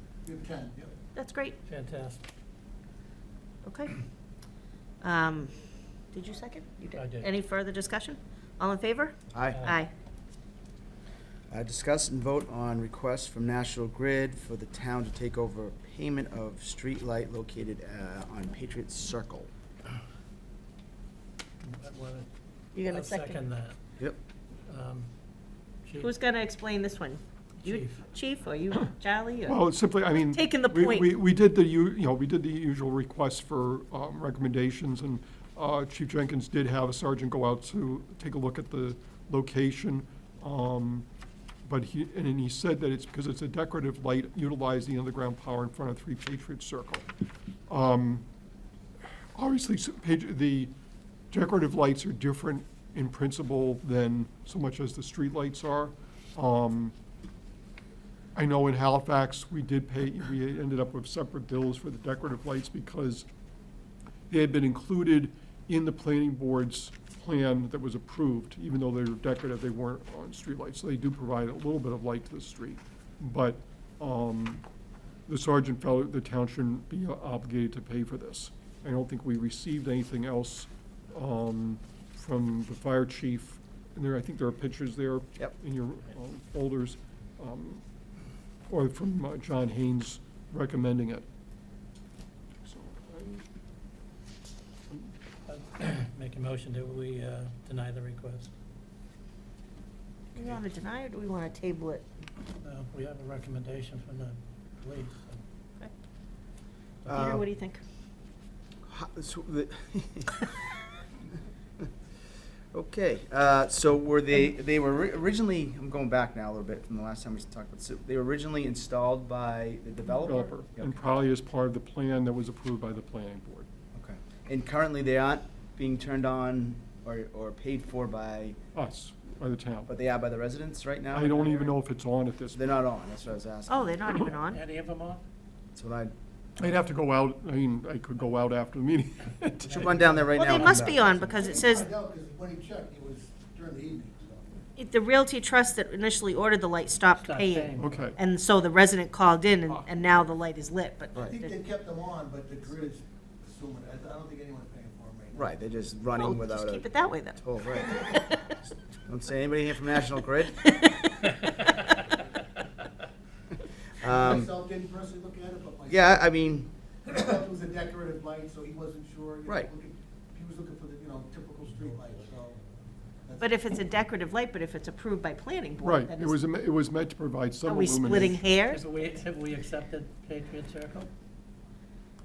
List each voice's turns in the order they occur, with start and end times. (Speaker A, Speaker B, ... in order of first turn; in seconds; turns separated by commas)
Speaker A: 0.2-0.9, Speaker B: 1.1-1.6, Speaker C: 1.6-2.2, Speaker B: 3.6-4.0, Speaker B: 5.0-5.6, Speaker B: 6.1-9.9, Speaker C: 6.9-7.3, Speaker D: 9.3-9.6, Speaker D: 11.5-19.5, Speaker C: 21.6-23.8, Speaker B: 22.7-23.4, Speaker C: 24.7-25.1, Speaker C: 25.8-26.1, Speaker B: 26.0-29.6, Speaker C: 27.6-28.0, Speaker E: 29.5-41.1, Speaker B: 30.3-31.1, Speaker E: 41.6-47.1, Speaker E: 47.7-48.2, Speaker E: 49.3-50.7, Speaker E: 51.3-56.9, Speaker E: 58.3-63.3, Speaker E: 64.3-74.6, Speaker E: 75.3-87.8, Speaker E: 88.7-91.2, Speaker E: 92.6-93.4, Speaker C: 95.5-98.5, Speaker B: 100.3-102.0, Speaker C: 102.6-105.4, Speaker C: 107.0-107.4, Speaker D: 107.1-107.4, Speaker B: 107.1-107.8, Speaker D: 108.9-110.5, Speaker D: 112.7-121.3, Speaker E: 120.1-123.7, Speaker D: 123.9-128.6, Speaker E: 128.7-129.9, Speaker D: 129.9-131.8, Speaker E: 131.1-132.6, Speaker D: 132.5-134.2, Speaker B: 133.7-134.6, Speaker C: 134.5-135.2, Speaker D: 135.7-136.1, Speaker E: 136.6-139.9, Speaker D: 139.6-141.2, Speaker A: 140.2-144.6, Speaker B: 140.3-141.9, Speaker B: 144.8-151.5, Speaker C: 147.1-148.0, Speaker E: 147.8-148.2, Speaker A: 151.1-155.5, Speaker D: 155.3-158.0, Speaker B: 156.1-158.6, Speaker D: 159.1-160.6, Speaker B: 160.6-161.3, Speaker D: 164.0-164.5, Speaker A: 164.0-166.2, Speaker D: 165.9-166.7, Speaker A: 167.0-172.6, Speaker A: 173.2-173.5, Speaker B: 173.4-176.4, Speaker E: 175.8-178.4, Speaker B: 177.6-178.8, Speaker C: 178.2-181.1